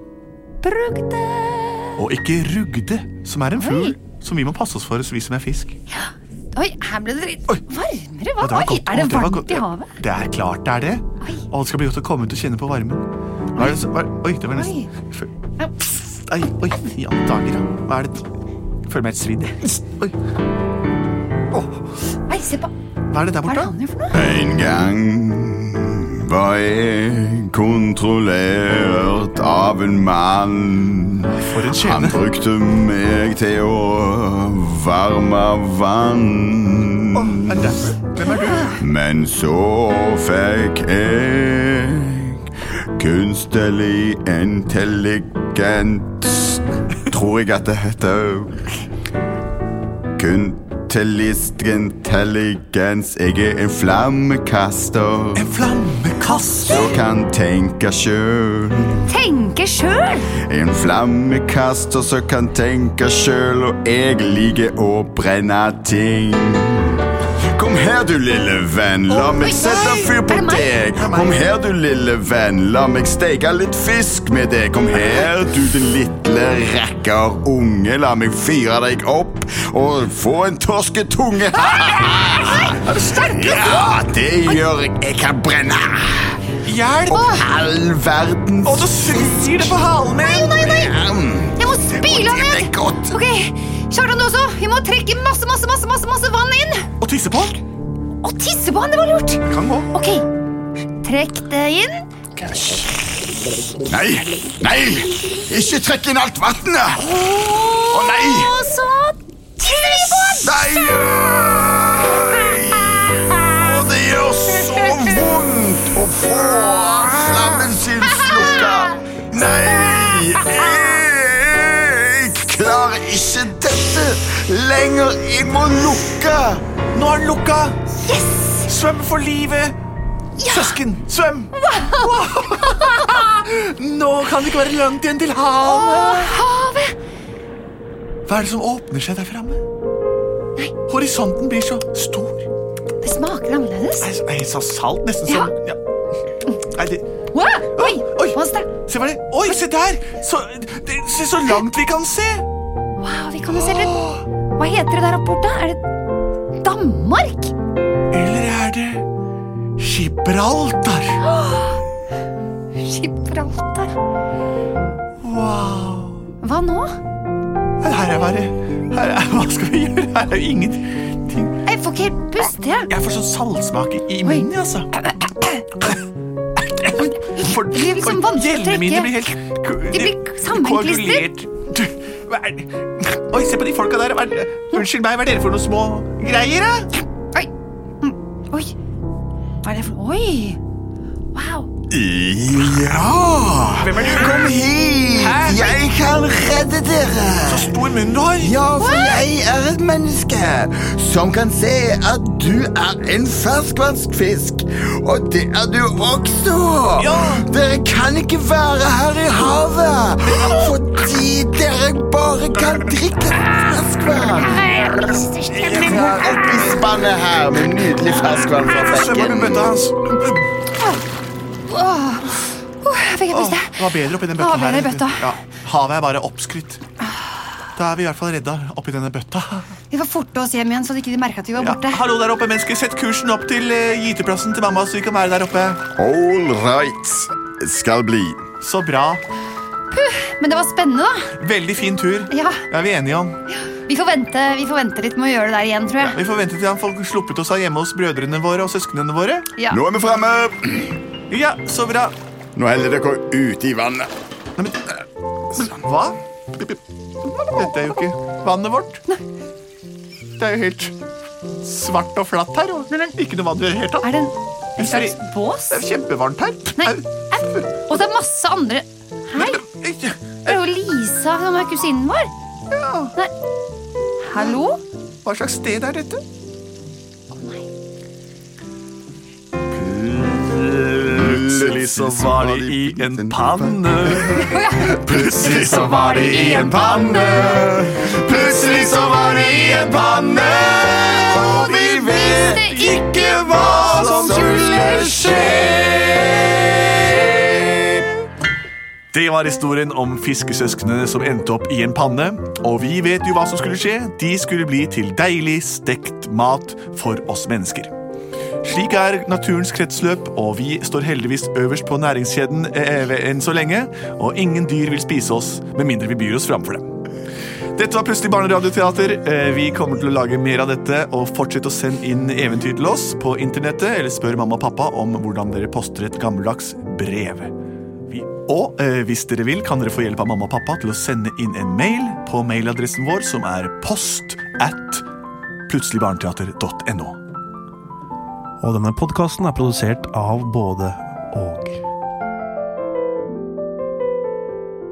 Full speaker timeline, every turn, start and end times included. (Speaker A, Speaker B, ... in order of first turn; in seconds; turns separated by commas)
Speaker A: 0.6-2.0, Speaker B: 2.0-5.8, Speaker A: 3.6-4.0, Speaker A: 5.9-9.9, Speaker B: 8.4-15.3, Speaker A: 14.5-14.9, Speaker B: 15.8-18.2, Speaker B: 18.9-20.1, Speaker A: 22.3-22.7, Speaker B: 23.1-23.7, Speaker A: 23.5-24.2, Speaker C: 24.1-37.7, Speaker B: 31.4-32.2, Speaker B: 37.1-38.8, Speaker C: 38.6-42.4, Speaker C: 42.9-48.6, Speaker C: 50.2-55.5, Speaker B: 55.3-57.0, Speaker C: 56.6-59.1, Speaker A: 59.0-60.3, Speaker C: 60.4-67.0, Speaker C: 67.5-82.8, Speaker B: 69.1-70.1, Speaker A: 69.3-70.9, Speaker B: 71.0-71.3, Speaker A: 81.5-84.6, Speaker C: 83.3-86.4, Speaker B: 86.6-87.3, Speaker C: 87.1-93.2, Speaker A: 87.1-87.4, Speaker B: 88.6-90.5, Speaker A: 90.1-91.0, Speaker A: 91.6-96.9, Speaker B: 97.0-97.6, Speaker A: 98.2-100.2, Speaker B: 99.5-99.9, Speaker A: 101.0-102.1, Speaker C: 103.8-107.1, Speaker A: 107.1-111.0, Speaker C: 107.9-108.6, Speaker C: 110.2-126.6, Speaker A: 118.2-118.9, Speaker B: 126.9-127.8, Speaker A: 128.0-128.7, Speaker B: 128.6-129.8, Speaker A: 130.4-130.8, Speaker B: 130.5-136.4, Speaker A: 131.6-133.1, Speaker A: 135.6-136.9, Speaker B: 138.3-139.6, Speaker B: 140.9-142.5, Speaker A: 143.0-144.1, Speaker B: 144.0-145.8, Speaker B: 146.7-147.1, Speaker A: 147.3-148.7, Speaker B: 147.8-152.4, Speaker A: 153.0-154.0, Speaker B: 153.5-154.2, Speaker A: 154.6-155.8, Speaker A: 156.6-157.5, Speaker B: 158.1-159.0, Speaker B: 159.8-161.2, Speaker A: 161.2-161.8, Speaker A: 162.8-163.9, Speaker B: 165.2-166.2, Speaker A: 166.4-166.9, Speaker B: 167.8-171.6, Speaker A: 171.6-172.9, Speaker B: 172.9-174.9, Speaker A: 175.0-175.6, Speaker B: 176.6-186.9, Speaker A: 177.2-179.2, Speaker A: 179.9-181.3, Speaker A: 188.0-188.7, Speaker A: 189.6-190.6, Speaker A: 191.3-191.7, Speaker C: 191.9-197.8, Speaker B: 193.8-194.5, Speaker B: 195.2-195.8, Speaker B: 197.4-198.6, Speaker C: 198.4-214.8, Speaker A: 198.8-199.3, Speaker B: 207.0-207.5, Speaker B: 210.3-210.7, Speaker B: 212.6-212.9, Speaker A: 214.3-216.3, Speaker B: 215.5-216.8, Speaker C: 215.7-219.7, Speaker B: 218.2-220.4, Speaker A: 221.7-225.3, Speaker B: 223.3-226.8, Speaker B: 227.7-229.8, Speaker A: 229.9-232.0, Speaker B: 231.6-235.8, Speaker C: 235.9-238.4, Speaker B: 238.6-239.2, Speaker A: 239.9-241.2, Speaker B: 241.4-243.4, Speaker A: 242.3-242.6, Speaker A: 243.5-246.2, Speaker B: 246.0-249.5, Speaker C: 249.7-251.0, Speaker B: 251.3-252.1, Speaker C: 252.5-254.1, Speaker B: 254.6-259.0, Speaker B: 260.4-260.9, Speaker B: 261.6-264.1, Speaker A: 264.0-265.9, Speaker B: 264.8-267.6, Speaker A: 266.8-269.7, Speaker B: 269.3-270.5, Speaker A: 270.4-272.3, Speaker B: 272.7-273.1, Speaker A: 274.2-274.8, Speaker B: 275.2-276.2, Speaker A: 277.3-277.7, Speaker C: 279.9-298.1, Speaker B: 280.2-284.5, Speaker A: 284.4-287.6, Speaker A: 290.9-295.8, Speaker B: 293.2-295.0, Speaker B: 299.1-307.9, Speaker B: 308.6-317.0, Speaker B: 317.8-327.5, Speaker B: 328.1-335.0, Speaker B: 335.7-337.2, Speaker D: 338.6-341.8